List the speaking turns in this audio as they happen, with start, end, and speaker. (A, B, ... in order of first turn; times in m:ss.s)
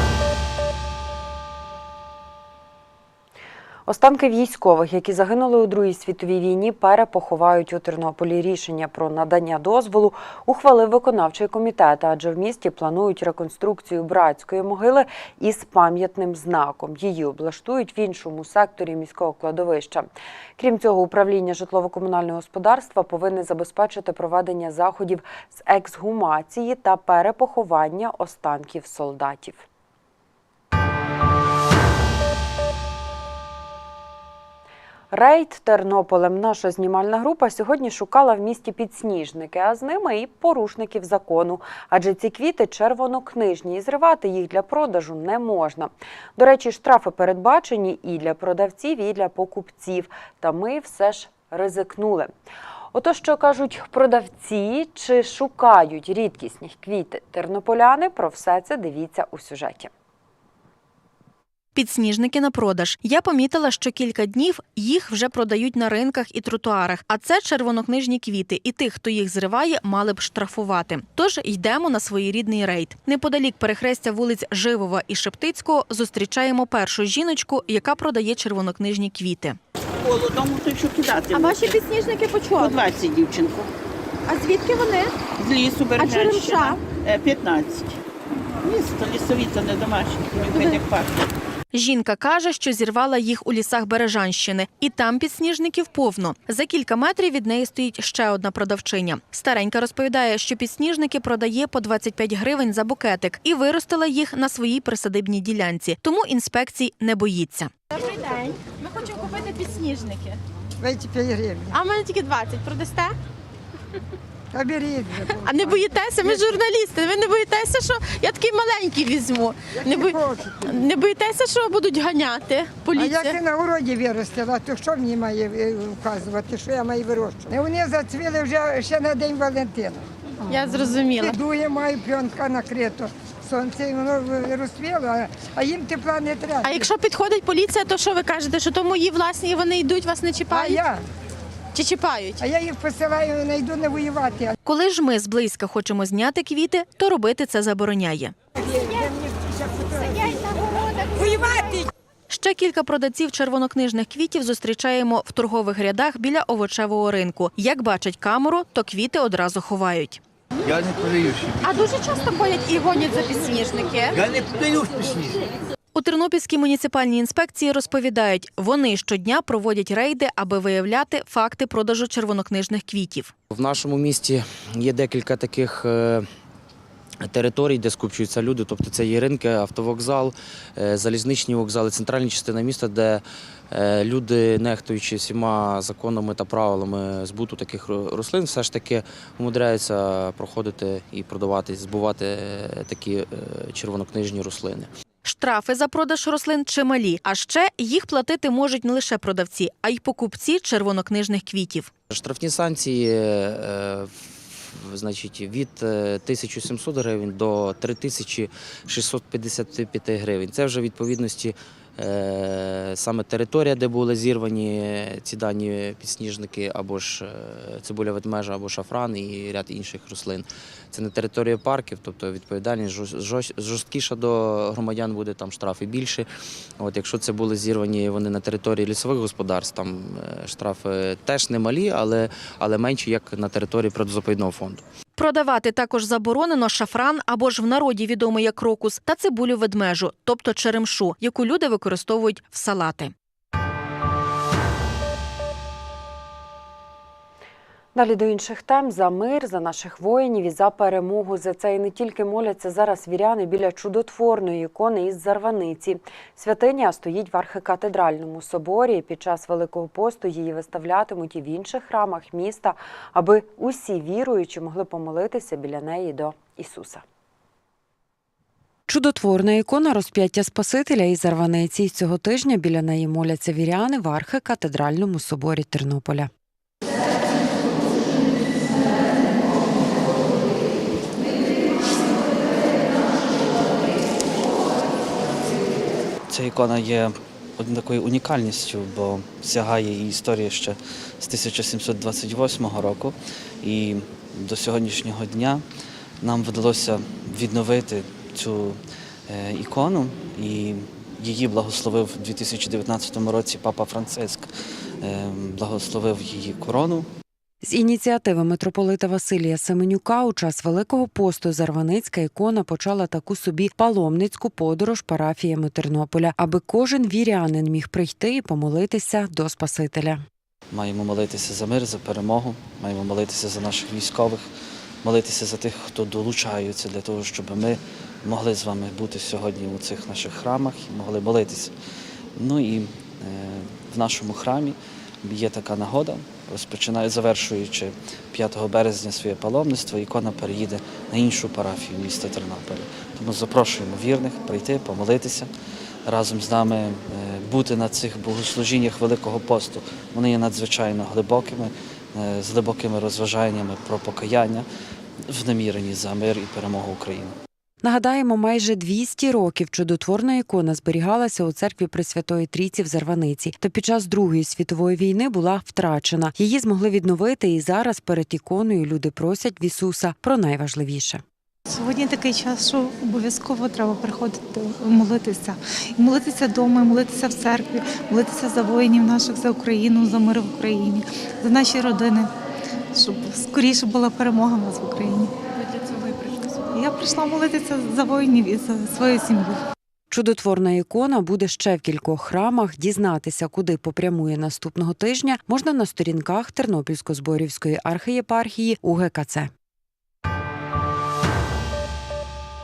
0:03.9-0:29.6 A
0:35.1-0:52.3 A
0:52.9-0:59.9 A
1:01.8-1:19.6 B
1:20.0-1:21.8 C
1:21.3-1:22.7 D
1:22.6-1:23.7 C
1:24.3-1:25.2 D
1:25.3-1:28.0 C
1:26.0-1:26.8 D
1:28.6-1:31.3 C
1:31.7-1:47.7 B
1:48.0-1:50.4 D
1:50.8-1:51.8 E
1:51.7-1:53.2 D
1:54.5-1:56.5 E
1:55.4-2:03.4 D
1:59.7-2:00.8 E
2:03.0-2:16.9 E
2:10.5-2:11.4 D
2:16.6-2:20.8 D
2:20.5-2:21.0 E
2:21.7-2:22.4 D
2:22.4-2:24.6 E
2:24.6-2:28.3 B
2:28.6-2:30.4 E
2:30.2-2:31.7 D
2:31.2-2:31.8 E
2:32.3-2:40.2 B
2:40.7-2:41.8 F
2:41.6-2:44.2 D
2:41.9-2:42.4 B
2:44.2-2:45.4 F
2:46.0-2:53.3 B
2:53.5-2:56.3 G
2:57.2-3:14.9 G
3:15.2-3:21.9 B
3:22.1-3:46.3 G
3:46.8-3:54.8 G
3:55.2-4:03.1 B
4:08.0-4:27.0 A
4:28.9-4:36.3 A
4:46.3-4:55.6 H
4:56.2-4:58.8 H
4:59.3-5:04.5 H
5:05.0-5:07.1 H
5:07.6-5:20.2 A
5:20.7-5:24.4 H
5:25.0-5:31.7 H
5:32.4-5:45.5 H
5:46.1-5:54.7 H
5:55.3-5:57.4 H
5:57.8-6:11.2 A
6:11.7-6:22.3 I
6:22.9-6:25.3 I
6:25.6-6:26.7 D
6:26.7-6:29.6 I
6:30.1-6:39.5 A